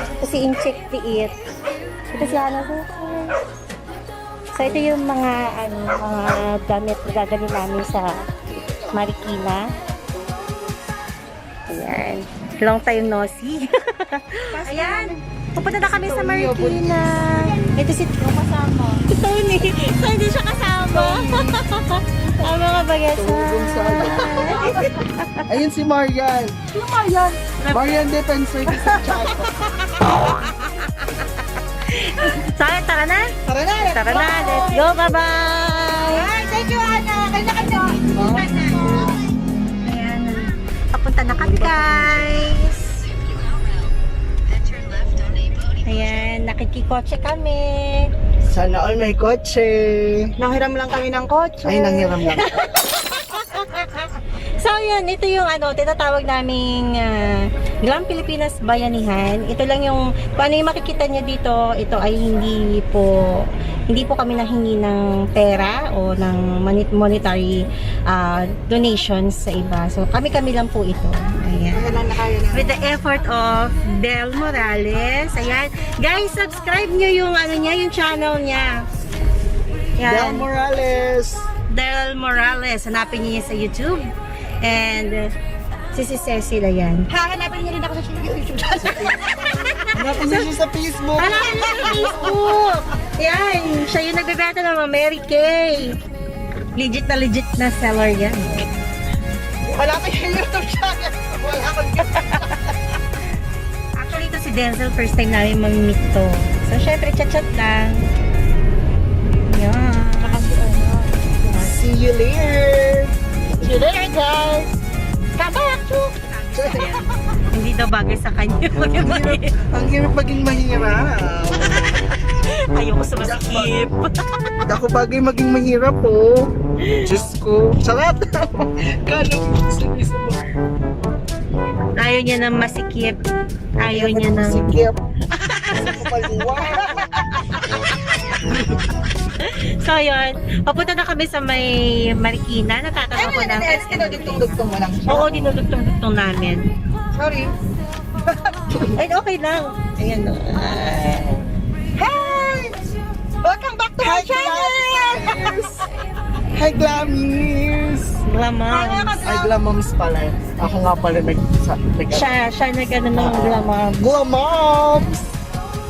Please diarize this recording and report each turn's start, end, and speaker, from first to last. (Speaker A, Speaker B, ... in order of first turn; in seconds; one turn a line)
Speaker A: 0.2-1.4
Speaker A: 2.1-3.3
Speaker A: 4.5-9.7
Speaker A: 11.7-18.2
Speaker B: 14.5-15.2
Speaker C: 16.1-17.5
Speaker B: 17.4-19.0
Speaker A: 19.1-25.4
Speaker B: 21.0-21.4
Speaker C: 23.2-24.6
Speaker B: 24.5-24.9
Speaker C: 25.5-26.6
Speaker B: 26.7-27.6
Speaker A: 27.6-28.0
Speaker C: 27.7-29.5
Speaker B: 28.7-29.3
Speaker A: 29.5-33.3
Speaker B: 33.5-35.1
Speaker A: 33.8-36.3
Speaker B: 36.1-39.4
Speaker A: 38.1-39.2
Speaker A: 39.8-43.0
Speaker C: 41.4-41.8
Speaker B: 41.5-42.5
Speaker A: 45.7-48.1
Speaker C: 48.5-50.3
Speaker B: 50.4-52.1
Speaker C: 51.6-52.5
Speaker A: 52.1-72.0
Speaker B: 71.7-72.9
Speaker A: 72.5-78.8
Speaker A: 80.0-80.5
Speaker C: 80.0-81.5
Speaker A: 81.7-84.1
Speaker A: 84.6-85.3
Speaker A: 85.9-87.1
Speaker B: 87.1-89.1
Speaker A: 89.7-90.3
Speaker C: 89.9-91.7
Speaker A: 91.2-96.0
Speaker B: 91.7-92.3
Speaker A: 96.8-98.6
Speaker B: 99.7-102.6
Speaker A: 104.0-108.0
Speaker A: 109.3-111.1
Speaker C: 111.4-114.5
Speaker A: 113.6-114.7
Speaker A: 115.4-119.6
Speaker C: 116.5-117.1
Speaker C: 118.9-122.0
Speaker A: 121.8-124.1
Speaker C: 123.2-123.8
Speaker C: 124.6-126.5
Speaker A: 126.8-127.1
Speaker C: 127.0-130.4
Speaker A: 132.0-133.2
Speaker A: 133.8-134.6
Speaker C: 133.9-135.0
Speaker A: 135.3-136.1
Speaker C: 135.7-137.1
Speaker A: 136.6-138.8
Speaker A: 139.4-146.7
Speaker B: 143.1-145.6
Speaker B: 147.1-147.6
Speaker B: 148.2-148.5
Speaker A: 149.0-151.4
Speaker B: 152.0-152.8
Speaker B: 153.4-155.6
Speaker C: 154.0-155.8
Speaker C: 156.5-158.2
Speaker A: 158.3-159.3
Speaker B: 158.7-159.6
Speaker C: 159.2-162.3
Speaker A: 162.1-164.0
Speaker C: 163.1-165.3